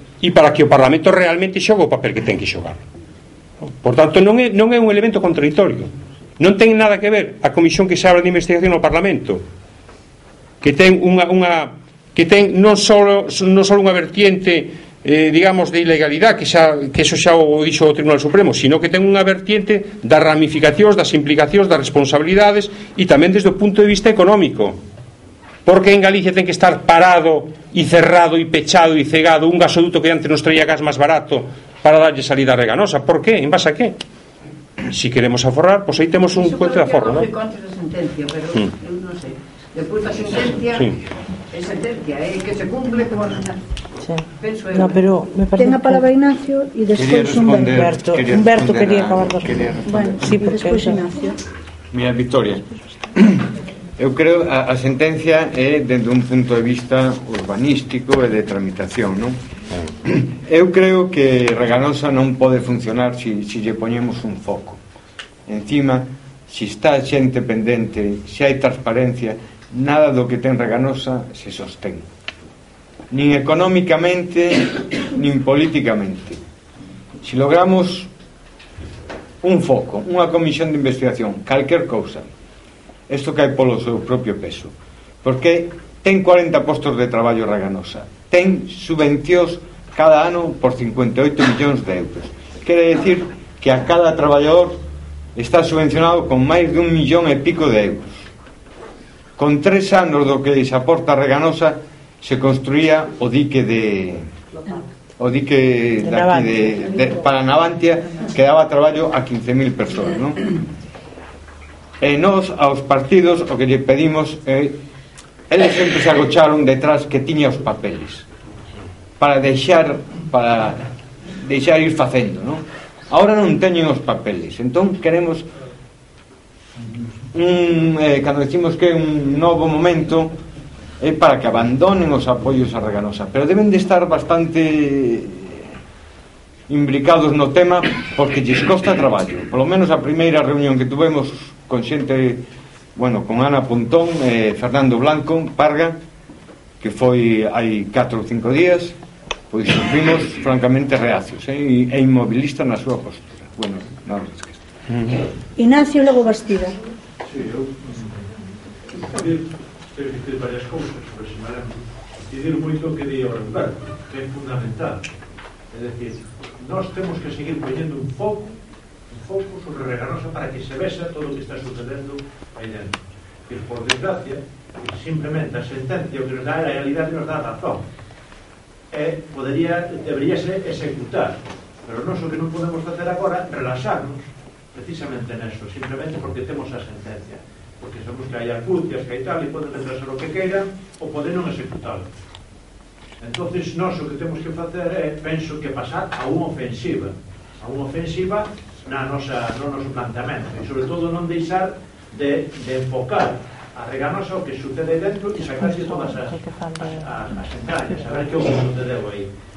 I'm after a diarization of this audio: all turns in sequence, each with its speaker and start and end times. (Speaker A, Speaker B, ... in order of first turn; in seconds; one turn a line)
Speaker A: 0.2-2.8
Speaker A: 3.8-9.4
Speaker A: 10.6-24.8
Speaker A: 25.6-34.0
Speaker A: 34.9-37.3
Speaker B: 36.3-40.9
Speaker A: 40.7-41.0
Speaker B: 41.5-43.6
Speaker C: 44.0-46.0
Speaker B: 44.4-45.1
Speaker D: 45.6-47.9
Speaker E: 46.9-50.1
Speaker C: 47.4-51.0
Speaker D: 49.9-51.4
Speaker E: 51.9-53.4
Speaker E: 54.0-59.4
Speaker E: 60.0-64.8
Speaker E: 65.5-72.0
Speaker E: 73.1-76.4
Speaker E: 77.2-78.1
Speaker E: 79.4-82.3
Speaker E: 83.1-94.8
Speaker E: 95.3-98.3
Speaker E: 99.4-104.3
Speaker E: 105.2-110.4
Speaker C: 106.0-107.1
Speaker E: 112.0-114.8
Speaker E: 115.5-118.2
Speaker E: 119.2-120.8
Speaker E: 121.3-125.5
Speaker E: 127.3-130.3
Speaker E: 131.0-135.7
Speaker E: 136.7-142.4
Speaker E: 142.9-146.0
Speaker E: 146.8-148.9
Speaker E: 149.5-154.6
Speaker D: 155.6-156.8
Speaker F: 157.2-158.2
Speaker F: 158.9-165.0
Speaker F: 165.7-168.6
Speaker F: 169.1-177.8
Speaker F: 178.9-192.1
Speaker F: 193.2-209.3
Speaker C: 205.6-207.2
Speaker C: 207.9-208.2